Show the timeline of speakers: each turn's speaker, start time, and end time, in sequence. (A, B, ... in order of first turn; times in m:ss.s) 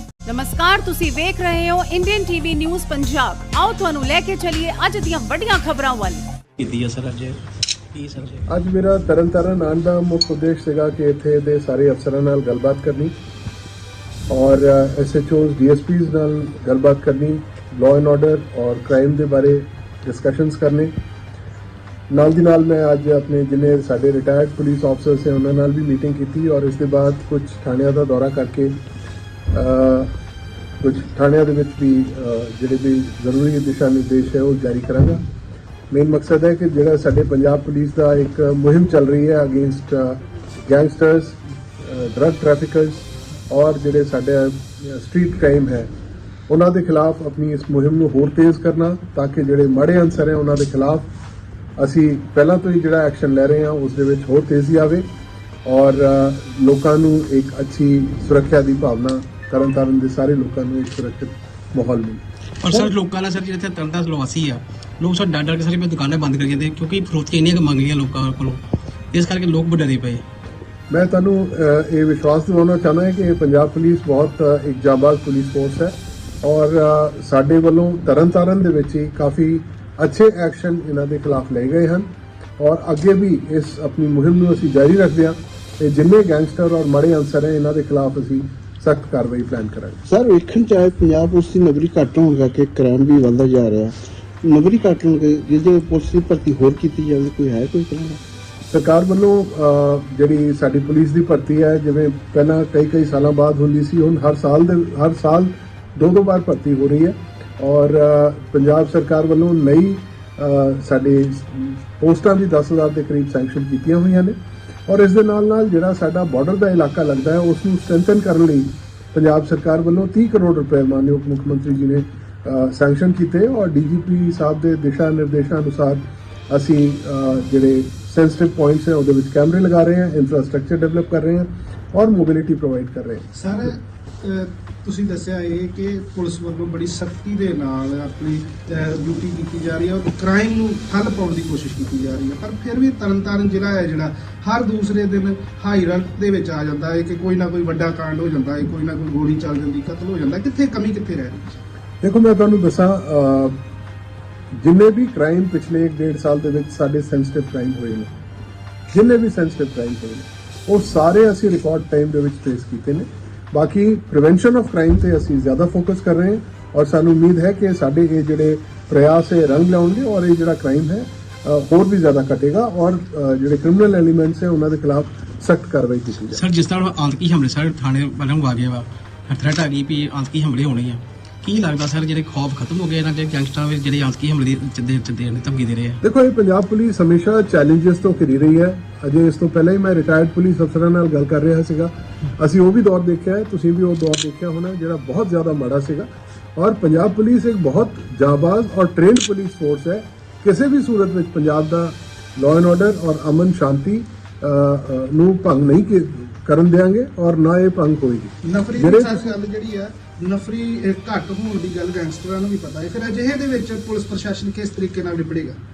0:00.3-0:06.2 A
0:06.6-0:07.4 B
0:07.9-0:08.4 B
0:08.5-0:13.1 C
0:14.3-0:20.9 C
0:22.1-0:28.8 C
0:29.5-0:30.1 C
0:30.8-0:35.2 C
0:35.9-0:45.9 C
0:46.5-0:51.1 C
0:51.8-0:55.0 C
0:55.6-1:02.2 C
1:02.6-1:08.6 B
1:09.1-1:10.2 B
1:10.9-1:30.0 C
1:30.1-1:38.2 D
1:38.7-1:54.4 C
1:54.9-2:13.2 C
2:13.4-2:31.5 E
2:32.0-2:33.6 C
2:34.5-2:38.1 C
2:38.9-2:56.4 C
2:56.3-3:06.0 B
3:06.0-3:29.4 C
3:28.5-3:35.6 E